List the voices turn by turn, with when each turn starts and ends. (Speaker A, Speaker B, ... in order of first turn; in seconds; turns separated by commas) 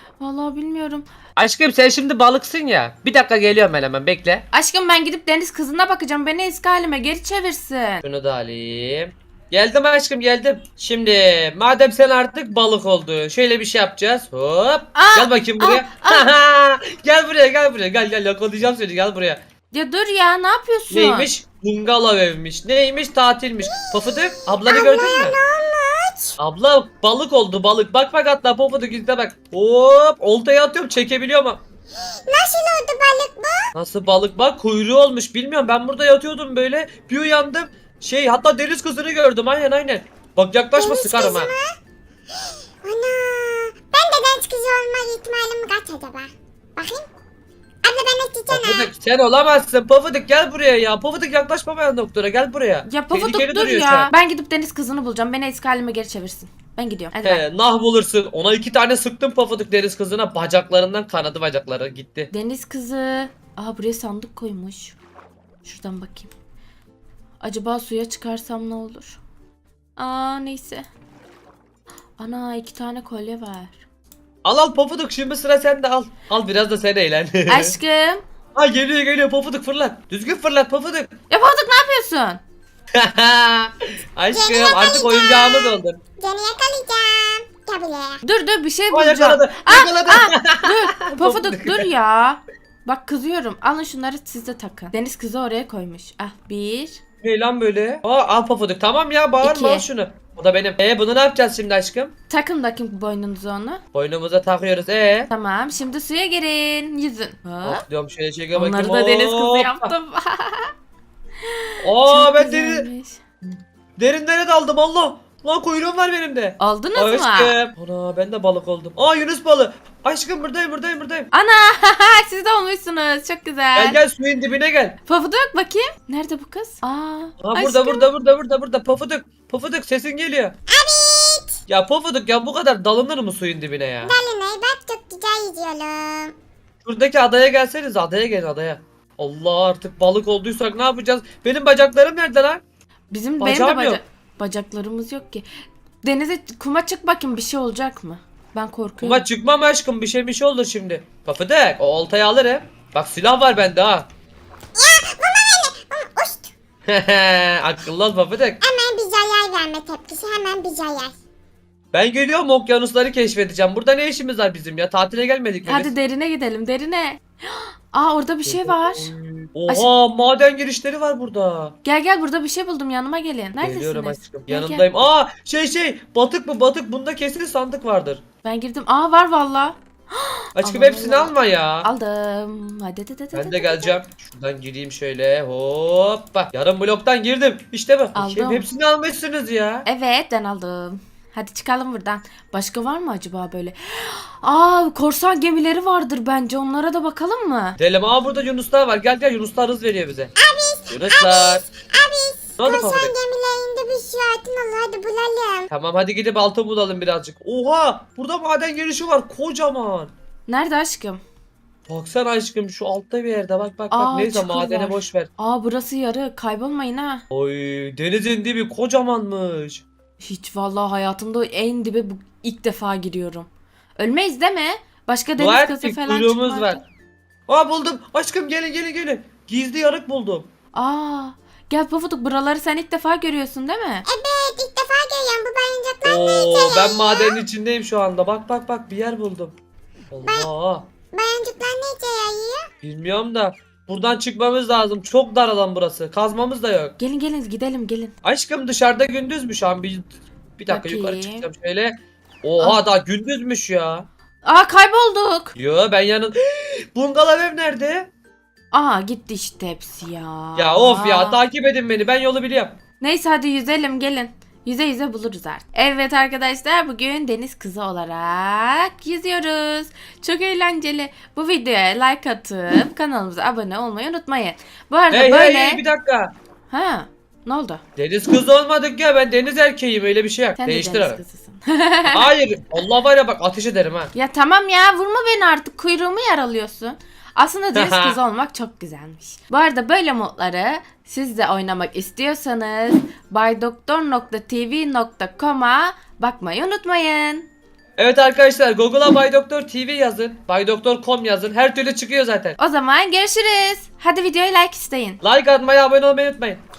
Speaker A: 0.2-1.1, Speaker B: 1.4-4.4, Speaker A: 4.5-8.0, Speaker B: 8.0-19.4, Speaker A: 14.9-16.3, Speaker A: 19.7-21.3, Speaker B: 20.9-25.4, Speaker C: 23.7-26.4, Speaker B: 26.4-31.6, Speaker C: 32.0-33.7, Speaker B: 33.7-41.5, Speaker C: 40.7-41.8, Speaker C: 42.4-47.0, Speaker C: 47.8-48.9, Speaker B: 48.5-54.1, Speaker A: 52.9-57.4, Speaker B: 57.2-62.3, Speaker A: 62.3-65.0, Speaker A: 65.6-66.3, Speaker A: 67.4-69.2, Speaker A: 70.0-70.9, Speaker A: 72.2-73.8, Speaker B: 74.4-77.8, Speaker A: 77.5-78.2, Speaker B: 78.5-81.1, Speaker A: 81.3-82.4, Speaker B: 82.9-86.0, Speaker C: 84.3-88.2, Speaker A: 88.2-97.0, Speaker B: 88.9-91.9, Speaker B: 97.2-102.1, Speaker A: 99.4-99.8, Speaker A: 102.3-103.8, Speaker B: 103.9-105.3, Speaker A: 105.3-107.8, Speaker B: 107.6-109.9, Speaker A: 108.5-110.7, Speaker A: 111.4-113.2, Speaker B: 111.8-112.9, Speaker B: 113.5-121.3, Speaker A: 116.6-117.5, Speaker A: 121.3-124.0, Speaker B: 123.8-125.0, Speaker A: 125.1-128.1, Speaker B: 127.4-130.6, Speaker C: 130.7-131.6, Speaker B: 131.7-134.2, Speaker C: 134.0-136.3, Speaker B: 136.8-142.6, Speaker A: 143.1-145.4, Speaker B: 143.4-144.0, Speaker A: 146.0-149.3, Speaker B: 149.0-154.1, Speaker C: 154.7-156.5, Speaker B: 156.8-158.6, Speaker C: 158.6-161.2, Speaker B: 161.9-165.9, Speaker A: 165.6-169.1, Speaker B: 168.4-171.8, Speaker A: 171.8-174.8, Speaker B: 173.6-178.2, Speaker A: 178.4-184.0, Speaker B: 180.6-181.9, Speaker B: 183.3-189.9, Speaker A: 188.1-188.7, Speaker A: 189.8-197.8, Speaker B: 197.8-200.3, Speaker C: 200.4-205.7, Speaker B: 200.9-201.6, Speaker B: 202.6-203.1, Speaker B: 205.7-210.1, Speaker A: 210.5-211.2, Speaker B: 211.9-215.3, Speaker A: 213.9-217.2, Speaker B: 217.3-219.8, Speaker A: 220.2-226.8, Speaker B: 225.4-226.8, Speaker B: 227.5-230.5, Speaker A: 230.7-234.0, Speaker C: 234.1-237.4, Speaker B: 236.0-239.5, Speaker B: 240.1-240.9, Speaker C: 240.2-240.5, Speaker C: 241.1-242.7, Speaker B: 242.8-246.9, Speaker A: 247.0-248.1, Speaker B: 248.2-254.1, Speaker A: 250.7-251.5, Speaker A: 254.4-255.6, Speaker B: 255.6-258.1, Speaker A: 258.7-261.4, Speaker B: 260.6-262.8, Speaker A: 263.0-275.8, Speaker B: 275.1-276.3, Speaker A: 276.7-277.8, Speaker B: 278.0-281.2, Speaker A: 280.6-282.3, Speaker B: 282.1-284.1, Speaker A: 284.1-297.5, Speaker B: 287.7-288.2, Speaker B: 298.0-302.6, Speaker A: 302.6-305.2, Speaker B: 305.2-306.6